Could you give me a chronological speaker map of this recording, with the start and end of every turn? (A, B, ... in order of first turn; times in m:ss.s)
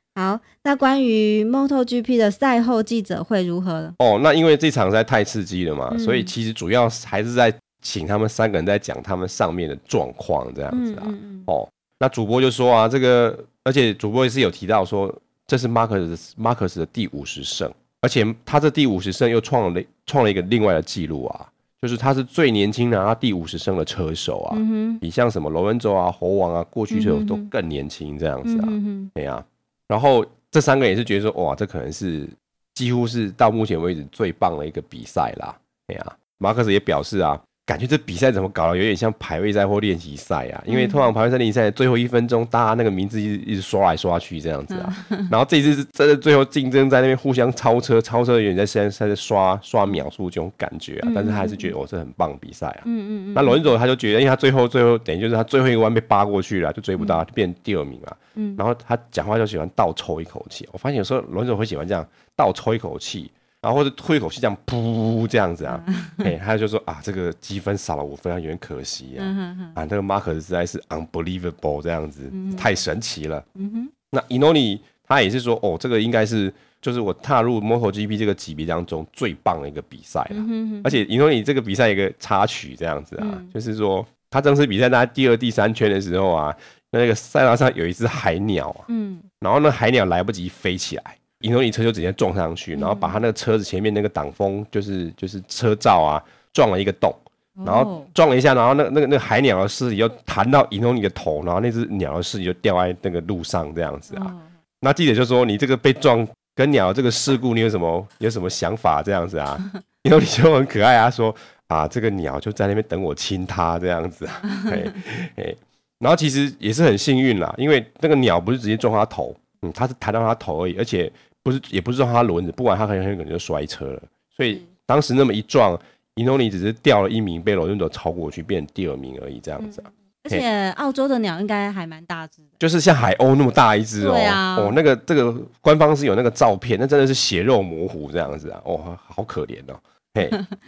0:00.1-0:03.9 A
0:04.0-1:13.4 B
0:05.9-0:06.3 A
0:10.7-0:11.5 A
0:24.5-0:25.0 A
0:26.9-0:27.5 A
0:28.4-0:29.1 A
0:40.7-0:41.1 A
0:44.7-0:45.3 A
0:51.0-0:51.7 A
0:52.8-0:53.7 A
0:57.0-0:57.2 A
0:58.4-0:58.6 A
1:05.7-1:06.3 A
1:09.2-1:09.8 A
1:12.3-1:12.7 A
1:13.5-1:13.9 A
1:14.1-1:28.9 B
1:20.3-1:21.0 A
1:23.2-1:23.5 A
1:28.9-1:29.2 A
1:29.4-2:10.4 B
1:32.7-1:33.2 A
1:37.6-1:38.1 A
1:44.1-1:44.4 A
1:54.5-1:54.9 A
2:09.6-2:12.4 A
2:12.6-2:20.4 B
2:14.0-2:14.8 A